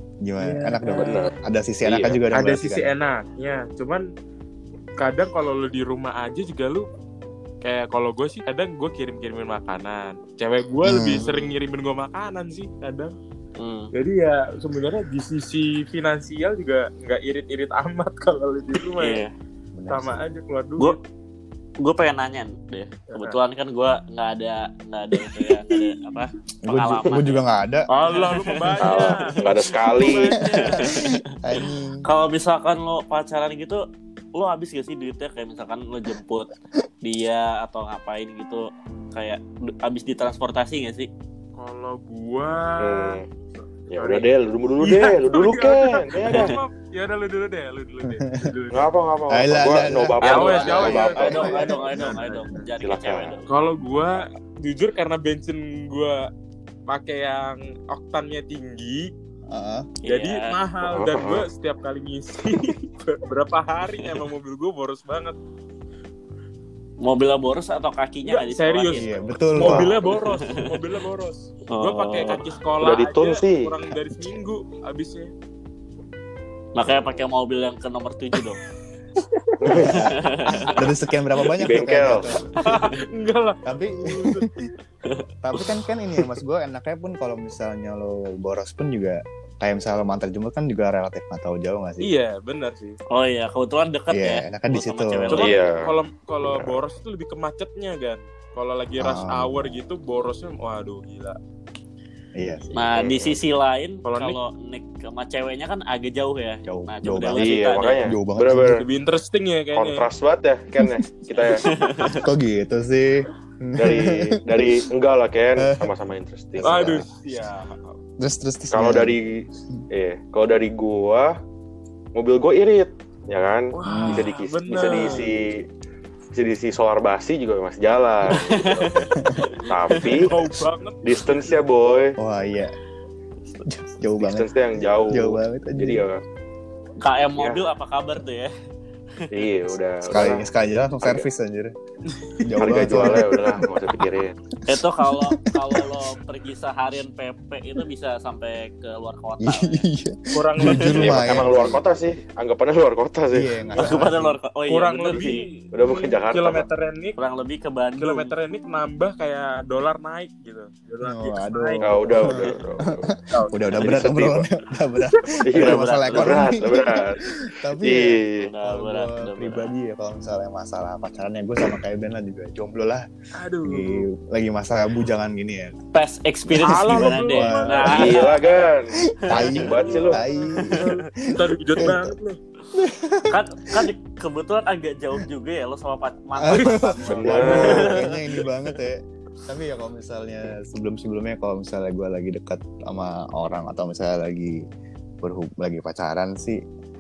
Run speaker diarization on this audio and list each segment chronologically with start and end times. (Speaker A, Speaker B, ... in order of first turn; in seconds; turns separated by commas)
Speaker A: 0.2-2.9, Speaker B: 0.4-1.3, Speaker C: 0.9-1.3, Speaker C: 1.9-2.2, Speaker B: 2.3-4.0, Speaker B: 5.0-6.9, Speaker B: 7.6-13.2, Speaker A: 10.8-11.2, Speaker D: 11.1-11.5, Speaker D: 13.6-13.9, Speaker B: 13.9-19.2, Speaker D: 19.0-19.3, Speaker A: 19.8-20.2, Speaker B: 19.9-21.0, Speaker D: 21.8-27.4, Speaker B: 23.1-23.4, Speaker B: 25.1-26.2, Speaker A: 26.6-27.9, Speaker B: 27.9-31.1, Speaker D: 28.0-29.6, Speaker C: 28.8-30.4, Speaker D: 30.3-31.3, Speaker A: 30.5-32.0, Speaker D: 32.0-33.8, Speaker D: 34.4-36.5, Speaker D: 37.0-41.1, Speaker B: 41.6-48.9, Speaker C: 42.8-43.2, Speaker C: 43.9-46.5, Speaker D: 46.3-46.6, Speaker A: 48.0-48.5, Speaker C: 48.7-51.7, Speaker A: 49.3-52.7, Speaker B: 50.2-52.3, Speaker D: 50.2-53.5, Speaker C: 52.8-53.4, Speaker B: 53.5-56.3, Speaker B: 56.9-59.1, Speaker A: 59.5-59.9, Speaker D: 60.0-60.6, Speaker B: 60.1-65.4, Speaker C: 60.8-61.5, Speaker D: 67.0-70.7, Speaker B: 68.3-75.3, Speaker A: 69.0-70.0, Speaker C: 69.6-69.9, Speaker D: 71.7-72.5, Speaker C: 72.8-73.7, Speaker D: 76.8-78.6, Speaker C: 76.8-77.2, Speaker C: 79.6-80.1, Speaker D: 79.7-80.8, Speaker A: 79.8-82.6, Speaker C: 81.6-82.3, Speaker D: 82.6-83.0, Speaker B: 82.6-84.6, Speaker A: 83.7-84.5, Speaker D: 85.0-86.2, Speaker A: 85.4-92.1, Speaker B: 92.0-93.0, Speaker D: 93.1-95.6, Speaker A: 94.1-95.5, Speaker B: 95.3-101.4, Speaker C: 95.3-95.9, Speaker C: 96.4-96.8, Speaker A: 99.0-99.8, Speaker A: 102.4-102.7, Speaker D: 102.7-108.0, Speaker C: 102.9-103.4, Speaker B: 104.0-104.4, Speaker A: 106.7-108.8, Speaker C: 107.3-108.8, Speaker B: 108.7-110.1, Speaker C: 109.8-111.7, Speaker D: 111.5-112.2, Speaker A: 112.0-114.9, Speaker C: 113.8-117.1, Speaker A: 115.6-115.9, Speaker A: 116.6-117.1, Speaker B: 116.6-118.0, Speaker A: 118.2-119.2, Speaker C: 118.7-121.4, Speaker C: 122.2-125.7, Speaker B: 123.7-125.3, Speaker A: 123.8-124.3, Speaker C: 126.3-130.4, Speaker D: 128.3-130.2, Speaker A: 129.2-129.6, Speaker B: 129.9-131.6, Speaker C: 131.0-132.2, Speaker A: 132.2-132.7, Speaker A: 133.7-136.1, Speaker C: 134.2-136.2, Speaker D: 137.0-138.5, Speaker C: 139.3-140.5, Speaker A: 140.0-141.7, Speaker A: 142.4-143.9, Speaker C: 142.6-144.4, Speaker A: 144.6-146.0, Speaker D: 144.7-149.8, Speaker A: 149.4-151.8, Speaker B: 150.3-151.7, Speaker D: 150.6-150.9, Speaker C: 151.0-153.7, Speaker A: 153.3-154.4, Speaker D: 153.8-155.5, Speaker B: 154.7-157.2, Speaker C: 155.1-156.7, Speaker D: 157.2-158.3, Speaker B: 158.0-162.1, Speaker A: 161.0-173.1, Speaker C: 161.8-163.1, Speaker B: 163.3-163.6, Speaker C: 163.8-164.5, Speaker D: 163.8-164.1, Speaker C: 165.4-168.5, Speaker D: 165.5-166.6, Speaker D: 168.4-169.7, Speaker B: 173.4-174.1, Speaker A: 173.6-175.8, Speaker D: 175.9-178.5, Speaker A: 176.5-178.2, Speaker B: 176.6-178.4, Speaker C: 177.9-180.2, Speaker A: 179.1-182.1, Speaker D: 179.3-180.9, Speaker B: 179.6-182.4, Speaker A: 182.7-183.9, Speaker D: 183.3-188.2, Speaker A: 186.4-194.6, Speaker C: 187.1-187.9, Speaker A: 195.2-196.6